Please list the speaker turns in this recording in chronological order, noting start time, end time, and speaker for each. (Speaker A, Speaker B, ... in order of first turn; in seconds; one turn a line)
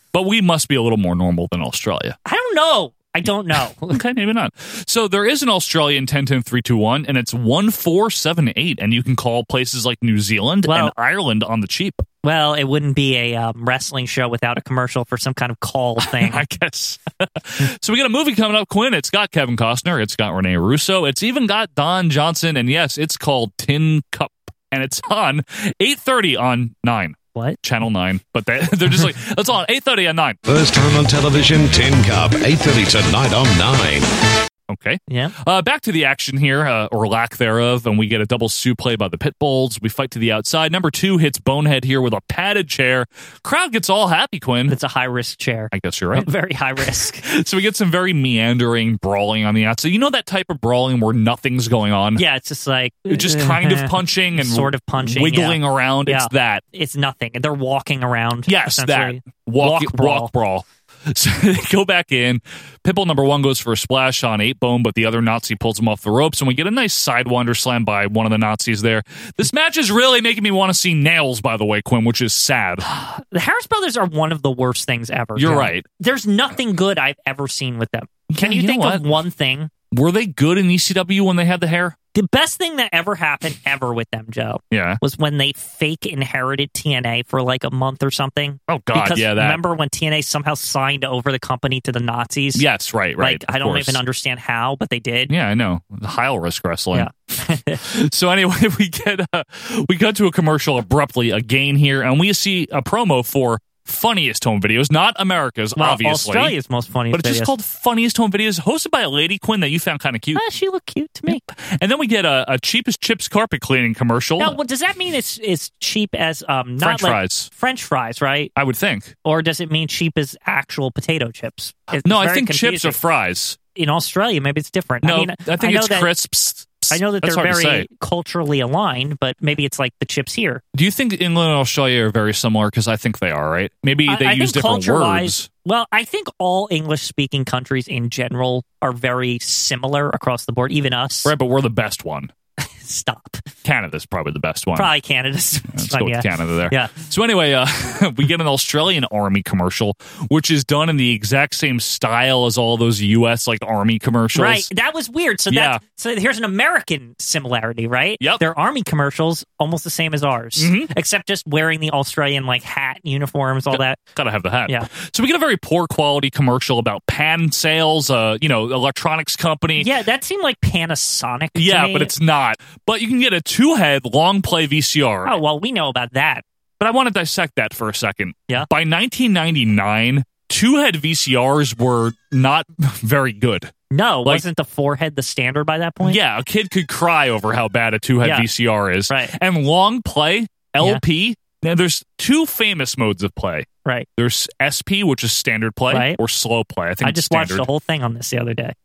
Speaker A: 0.1-2.1
Speaker B: 2.2-4.0
Speaker A: 3.9-12.0
Speaker B: 10.7-10.9
Speaker B: 12.2-16.4
Speaker A: 16.0-30.4
Speaker C: 30.4-34.1
Speaker A: 34.7-44.8
Speaker B: 35.1-35.3
Speaker B: 44.7-47.2
Speaker A: 45.7-46.3
Speaker A: 47.2-52.2
Speaker B: 52.2-60.3
Speaker A: 53.1-56.6
Speaker A: 58.5-72.8
Speaker B: 72.8-79.7
Speaker A: 75.3-75.8
Speaker A: 78.3-79.0
Speaker A: 79.9-82.0
Speaker B: 82.1-92.6
Speaker A: 84.7-85.0
Speaker A: 88.7-89.6
Speaker A: 92.5-94.0
Speaker B: 93.2-95.3
Speaker A: 95.3-97.1
Speaker B: 96.9-97.8
Speaker A: 97.8-106.5
Speaker B: 105.8-107.5
Speaker A: 107.1-110.4
Speaker B: 110.3-111.4
Speaker A: 111.3-114.6
Speaker B: 114.4-118.5
Speaker A: 116.8-117.5
Speaker A: 118.5-119.1
Speaker B: 119.2-123.0
Speaker A: 122.0-123.6
Speaker B: 123.7-126.1
Speaker A: 125.0-127.9
Speaker B: 126.9-130.6
Speaker A: 130.7-135.5
Speaker B: 134.1-141.3
Speaker A: 141.2-142.3
Speaker B: 142.6-143.5
Speaker A: 143.6-144.9
Speaker B: 144.8-146.9
Speaker A: 145.7-154.7
Speaker B: 154.3-164.0
Speaker A: 155.5-155.8
Speaker A: 160.6-160.9
Speaker A: 163.7-169.9
Speaker B: 169.8-172.1
Speaker A: 171.5-175.4
Speaker B: 175.2-176.4
Speaker A: 176.8-183.7
Speaker B: 183.9-186.2
Speaker A: 186.0-197.7
Speaker B: 188.2-188.5
Speaker B: 195.9-196.2
Speaker B: 197.0-198.7